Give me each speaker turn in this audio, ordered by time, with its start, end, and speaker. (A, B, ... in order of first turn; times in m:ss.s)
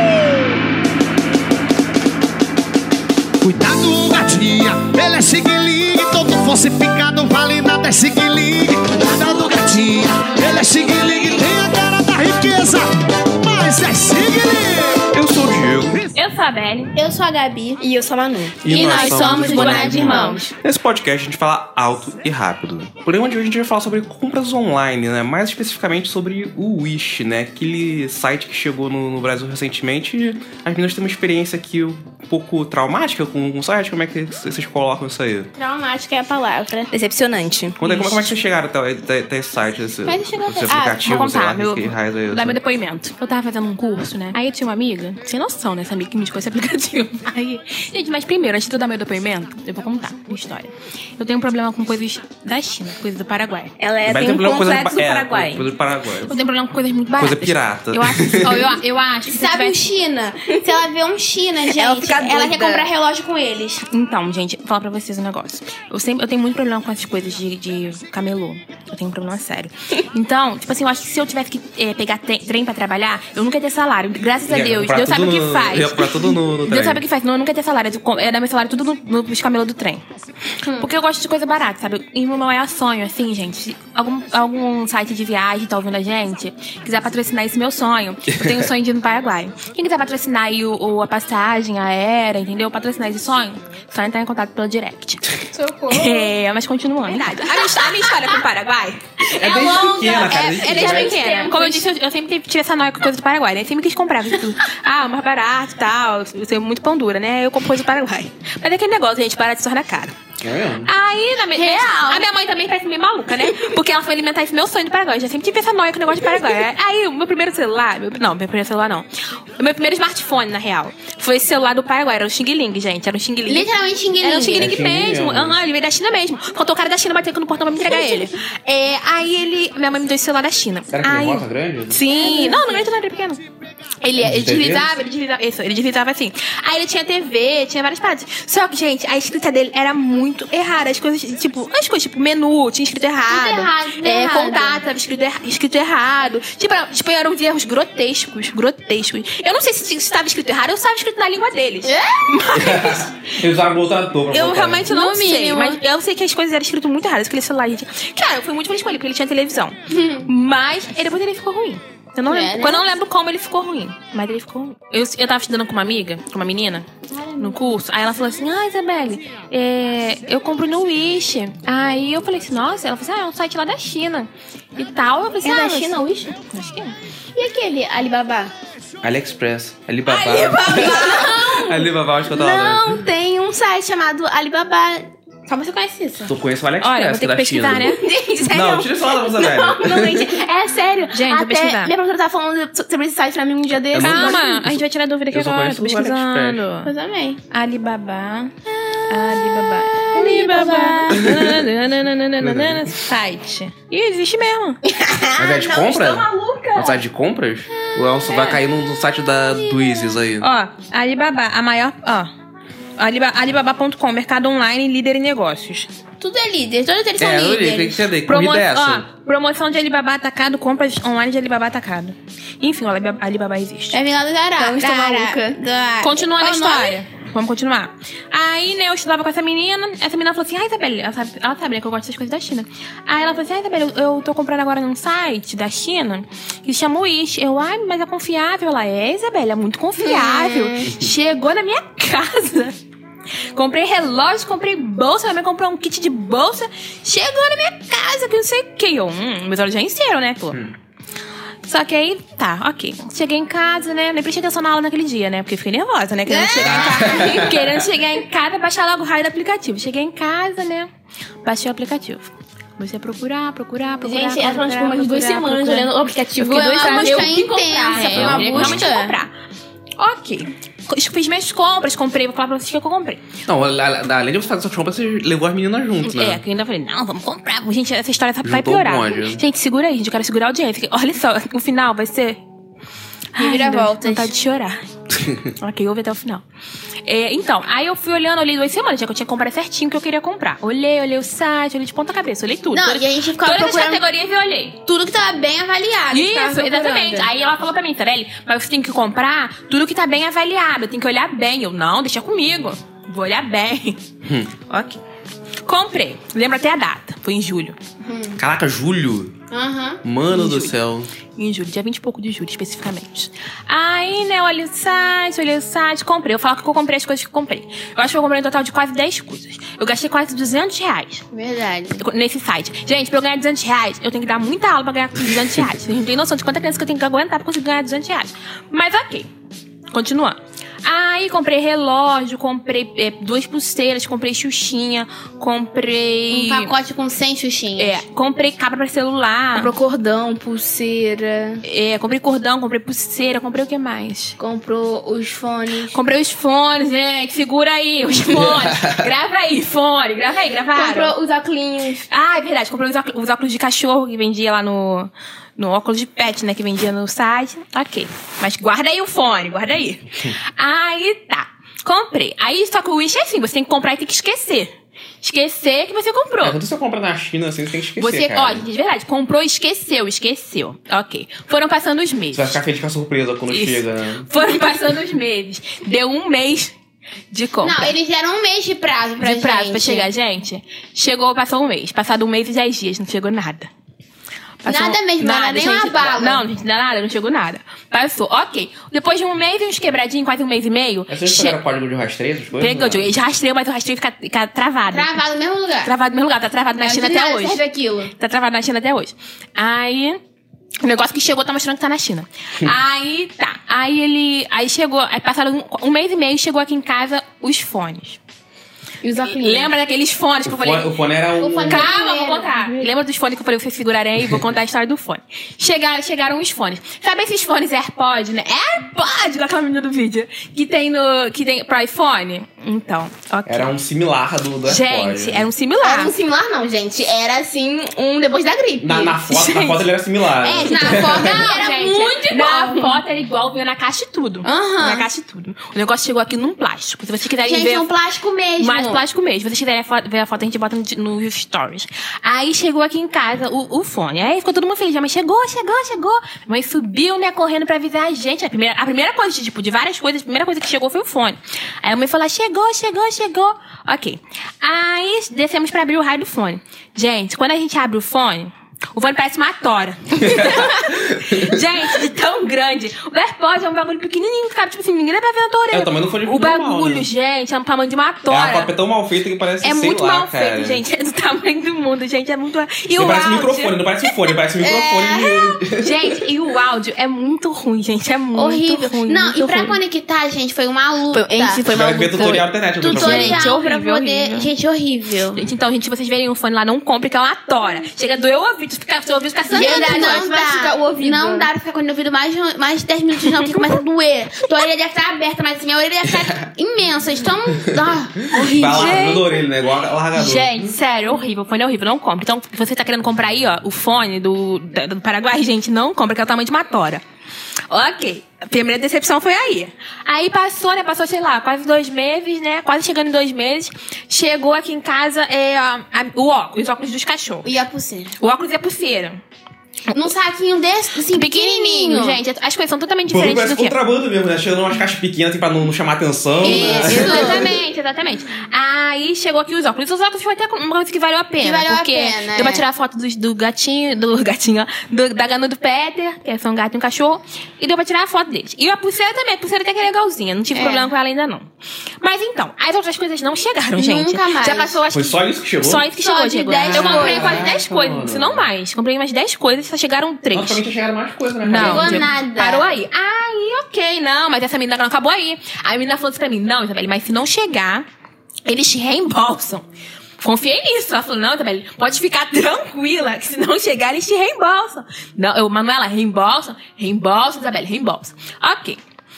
0:03.4-0:15.1 A
0:15.1-0:16.0 B
0:16.1-0:17.0 C
0:17.0-0:20.5 D
0:18.6-0:35.5 B
0:18.7-0:20.5 C
0:35.6-0:37.1 D
0:36.9-0:37.8 E
0:37.8-0:42.6 B
0:40.1-0:41.0 D
0:41.0-0:53.7 C
0:53.8-0:54.4 D
0:53.8-0:55.5 E
0:54.0-0:56.3 B
0:56.2-0:59.8 C
0:57.1-0:58.7 B
0:59.3-1:03.8 D
1:01.6-1:03.0 E
1:03.9-1:20.0 C
1:14.5-1:17.0 B
1:20.7-1:35.2 C
1:28.3-1:28.7 B
1:35.5-1:36.3 D
1:35.9-1:50.2 C
1:39.3-1:41.2 B
1:39.4-1:41.8 D
1:50.4-1:50.9 B
1:50.8-2:13.4 C
1:51.5-1:52.2 D
2:03.4-2:04.7 D
2:04.5-2:05.6 B
2:07.9-2:08.2 D
2:10.9-2:12.0 B
2:12.2-2:12.7 D
2:14.0-2:33.2 C
2:14.2-2:14.9 B
2:23.2-2:24.8 D
2:31.8-2:32.3 D
2:32.5-2:34.9 B
2:34.3-2:46.9 C
2:34.8-2:35.8 D
2:39.9-2:40.3 D
2:42.2-2:42.8 D
2:47.1-2:47.6 D
2:47.4-2:56.9 C
2:55.4-2:56.3 D
2:57.3-2:58.5 D
2:59.0-3:03.0 B
3:00.0-3:01.9 C
3:00.7-3:01.7 D
3:02.3-3:06.3 D
3:06.2-3:07.9 B
3:06.8-3:09.1 C
3:08.5-3:10.4 B
3:09.3-3:14.5 D
3:11.1-3:11.9 C
3:13.9-3:14.8 B
3:14.0-3:16.9 C
3:15.3-3:16.6 B
3:16.8-3:17.4 D
3:17.5-3:18.5 C
3:19.1-3:24.8 C
3:20.1-3:21.2 D
3:21.1-3:21.5 B
3:22.4-3:22.9 B
3:24.9-3:26.9 D
3:25.4-3:30.5 B
3:25.8-3:26.5 C
3:28.3-3:28.6 C
3:30.4-3:32.3 C
3:33.0-3:35.9 C
3:36.2-3:38.0 D
3:37.2-3:39.1 B
3:38.2-3:44.0 C
3:43.9-3:47.0 D
3:44.6-3:45.4 C
3:44.7-3:45.4 E
3:46.0-4:02.8 C
4:00.0-4:00.9 D
4:03.5-4:10.6 C
4:11.6-4:20.9 C
4:16.2-4:17.3 D
4:16.6-4:17.7 B
4:21.4-4:29.3 C
4:24.0-4:29.2 D
4:24.1-4:26.0 E
4:26.5-4:27.2 E
4:28.0-4:28.9 B
4:30.0-4:33.2 C
4:33.5-4:36.4 B
4:36.0-4:42.4 C
4:38.4-4:39.4 B
4:43.3-4:44.8 C
4:43.4-4:44.3 D
4:45.6-4:46.4 C
4:47.0-4:54.8 C
4:52.7-4:54.0 D
4:54.8-4:57.3 D
4:56.1-5:04.0 C
5:04.2-5:04.5 B
5:04.7-5:05.0 C
5:05.6-5:07.8 C
5:08.0-5:08.4 D
5:08.4-5:09.3 B
5:09.5-5:10.0 D
5:10.0-5:11.1 B
5:10.3-5:10.7 C
5:11.3-5:21.2 C
5:21.3-5:22.0 D
5:22.0-5:29.3 C
5:29.9-5:36.7 C
5:36.3-5:38.0 D
5:37.8-5:39.7 C
5:39.5-5:41.6 D
5:41.6-5:44.4 C
5:44.4-5:45.9 D
5:45.9-5:51.1 C
5:48.3-5:49.0 B
5:50.7-5:52.0 D
5:52.1-6:06.6 C
6:06.4-6:08.6 B
6:08.0-6:12.6 C
6:12.3-6:14.3 B
6:13.5-6:16.7 C
6:17.3-6:17.9 C
6:17.6-6:20.1 D
6:19.2-6:23.7 C
6:24.6-6:31.6 C
6:24.6-6:26.4 D
6:31.1-6:33.1 B
6:32.6-6:35.2 C
6:34.9-6:35.9 D
6:35.8-6:37.6 C
6:36.8-6:38.1 D
6:38.2-6:40.2 C
6:40.8-6:48.2 C
6:49.0-6:49.7 D
6:49.2-6:50.9 C
6:50.4-6:51.9 B
6:51.4-6:52.8 D
6:51.6-7:03.7 C
7:03.4-7:05.5 B
7:04.6-7:06.1 C
7:05.8-7:09.2 D
7:08.8-7:11.5 B
7:09.3-7:09.9 C
7:10.4-7:17.9 C
7:10.4-7:13.0 D
7:14.4-7:15.0 D
7:17.4-7:19.0 D
7:18.6-7:48.7 C
7:40.2-7:41.6 B
7:45.7-7:47.1 B
7:48.3-7:50.8 B
7:49.6-7:54.1 C
7:53.0-7:56.1 B
7:54.6-7:55.6 D
7:55.8-7:59.8 C
7:58.3-8:01.7 D
8:01.1-8:01.9 E
8:01.2-8:04.5 C
8:01.7-8:03.5 B
8:02.8-8:05.4 D
8:05.3-8:10.7 C
8:09.5-8:19.1 D
8:09.6-8:11.5 E
8:16.0-8:16.3 B
8:18.3-8:19.3 C
8:18.3-8:20.7 B
8:20.1-8:27.0 C
8:27.7-8:37.5 C
8:37.4-8:38.2 D
8:38.2-8:39.2 C
8:39.9-8:42.2 D
8:41.1-8:43.8 C
8:43.1-8:47.5 B
8:46.4-8:47.5 D
8:46.4-9:01.5 C
8:51.4-8:52.6 D
9:00.5-9:00.9 D
9:02.0-9:10.6 C
9:03.7-9:04.8 D
9:04.9-9:05.9 B
9:06.0-9:07.6 D
9:06.6-9:08.4 B
9:10.3-9:12.1 B
9:11.4-9:17.8 C
9:11.5-9:12.7 D
9:18.4-9:19.6 C
9:20.2-9:28.8 C